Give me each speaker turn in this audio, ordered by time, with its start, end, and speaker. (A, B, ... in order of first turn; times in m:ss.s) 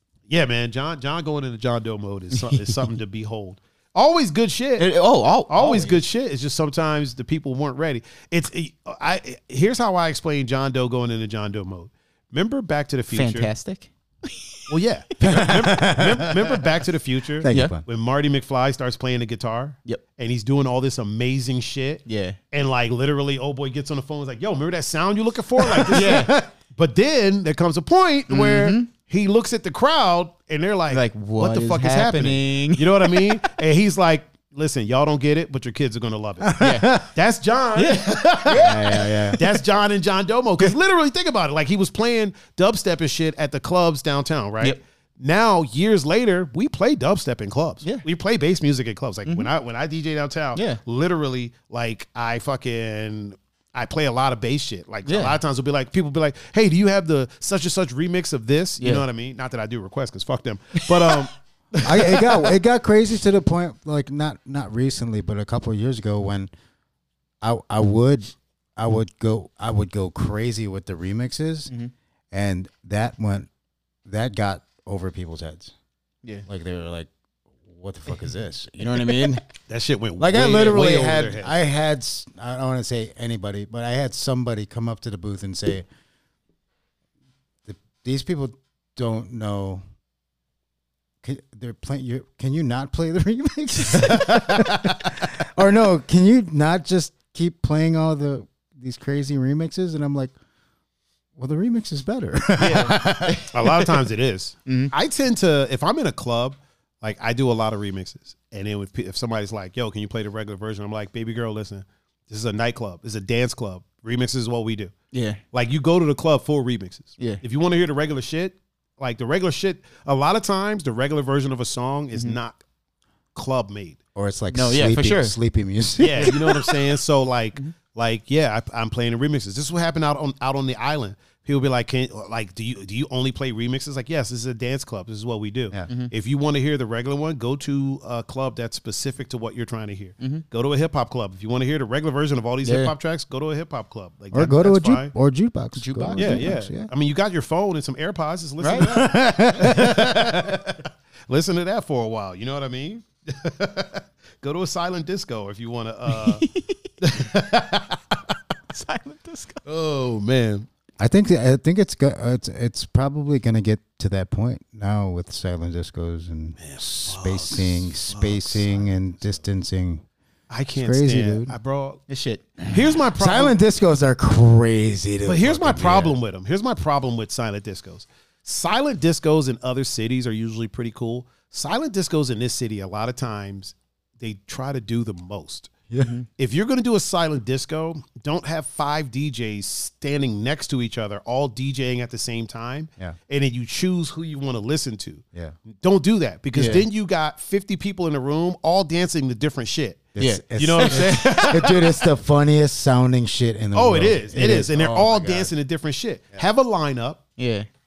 0:00.3-0:04.9 A
0:04.8-0:06.0 B
0:05.5-0:13.5 A
0:13.1-0:14.5 B
0:14.7-1:02.5 A
0:15.2-0:16.6 C
0:17.4-0:17.8 C
0:17.5-0:17.7 B
0:22.0-0:22.4 B
0:25.6-0:26.5 C
0:25.9-0:26.4 B
0:28.3-0:28.9 B
0:30.9-0:33.3 B
0:36.5-0:37.0 C
0:36.6-0:37.0 B
0:37.8-0:39.6 B
0:38.6-0:39.4 C
0:49.2-0:49.5 B
0:50.5-0:50.8 B
0:55.0-0:55.4 B
0:58.8-0:59.0 B
1:01.8-1:06.5 C
1:07.4-1:11.7 C
1:12.3-1:13.5 C
1:14.0-1:15.7 C
1:16.4-1:17.1 C
1:17.7-1:19.4 C
1:18.9-1:19.4 B
1:19.7-1:21.6 A
1:20.2-1:25.9 C
1:27.6-1:29.8 C
1:31.2-1:40.3 C
1:34.1-1:34.7 A
1:41.4-1:43.5 C
1:42.6-1:54.9 A
1:42.6-1:43.7 B
1:44.6-1:44.9 B
1:55.1-1:55.4 B
1:55.5-2:02.6 A
2:03.3-2:04.0 A
2:04.1-2:06.4 C
2:04.5-2:05.4 B
2:06.0-2:25.1 A
2:06.2-2:06.8 B
2:15.9-2:16.1 B
2:20.2-2:20.4 B
2:22.6-2:22.9 B
2:24.3-2:26.9 C
2:25.8-2:26.5 B
2:26.2-2:36.5 A
2:28.6-2:29.0 B
2:28.8-2:30.4 C
2:36.1-2:36.8 B
2:37.0-2:38.0 A
2:38.7-2:39.6 B
2:39.6-2:40.7 A
2:41.0-2:50.0 C
2:46.6-2:48.9 A
2:50.5-2:52.0 A
2:50.8-2:51.5 C
2:52.1-2:53.0 B
2:52.7-2:53.6 A
2:53.2-2:56.2 C
2:55.2-3:05.7 A
3:05.9-3:06.2 C
3:06.4-3:22.0 A
3:16.5-3:16.8 B
3:20.1-3:25.5 C
3:20.2-3:21.1 B
3:23.7-3:27.2 A
3:27.4-3:27.7 B